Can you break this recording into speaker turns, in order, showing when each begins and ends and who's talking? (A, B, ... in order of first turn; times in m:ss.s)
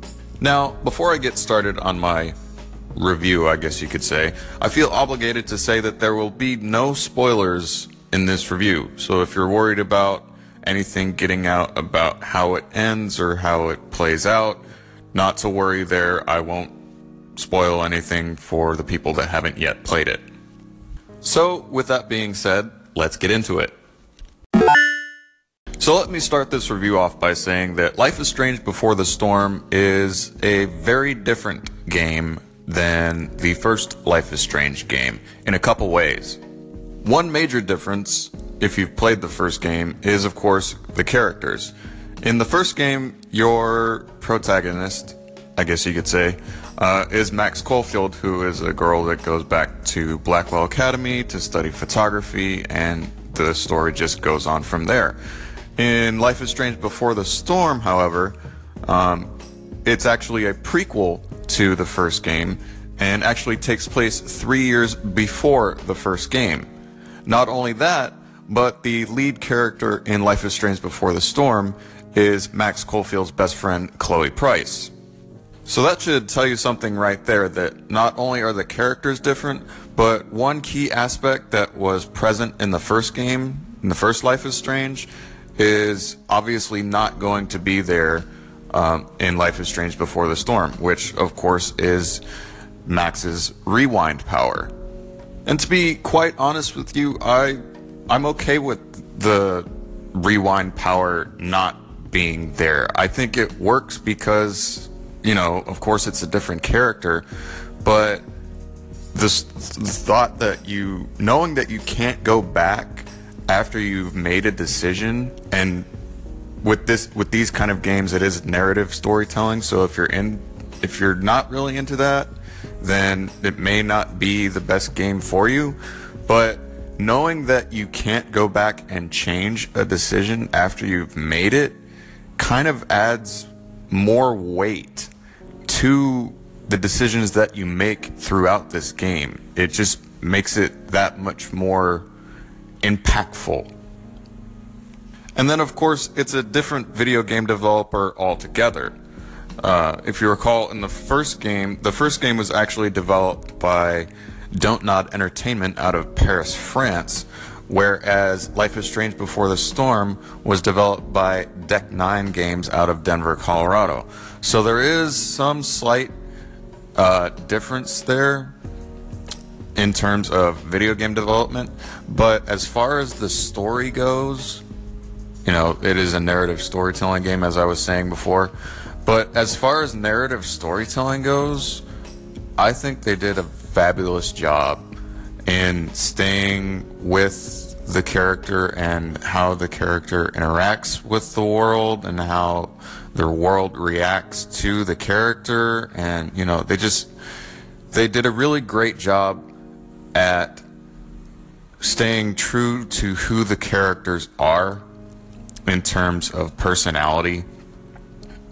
0:00.4-0:02.4 A
0:03.0-0:16.7 A
0:17.4-0:20.2 A
0:21.2-0:23.8 A
0:25.8-0:36.4 A
0:37.0-0:55.2 A
0:55.8-0:59.3 A
0:59.8-1:06.7 A
1:07.3-1:14.9 A
1:15.7-1:32.2 A
1:32.9-1:34.7 A
1:35.5-1:47.2 A
1:47.8-1:48.2 A
1:49.1-1:55.9 A
1:56.6-2:11.8 A
2:12.4-2:15.1 A
2:15.7-2:22.1 A
2:22.8-2:23.7 A
2:25.4-2:28.9 A
2:29.6-2:46.1 A
2:47.0-2:48.6 A
2:49.8-2:54.6 A
2:55.4-2:58.5 A
2:59.0-3:01.8 A
3:02.6-3:04.8 A
3:05.5-3:17.1 A
3:17.9-3:19.5 A
3:20.1-3:20.6 A
3:21.8-3:24.8 A
3:25.7-3:27.5 A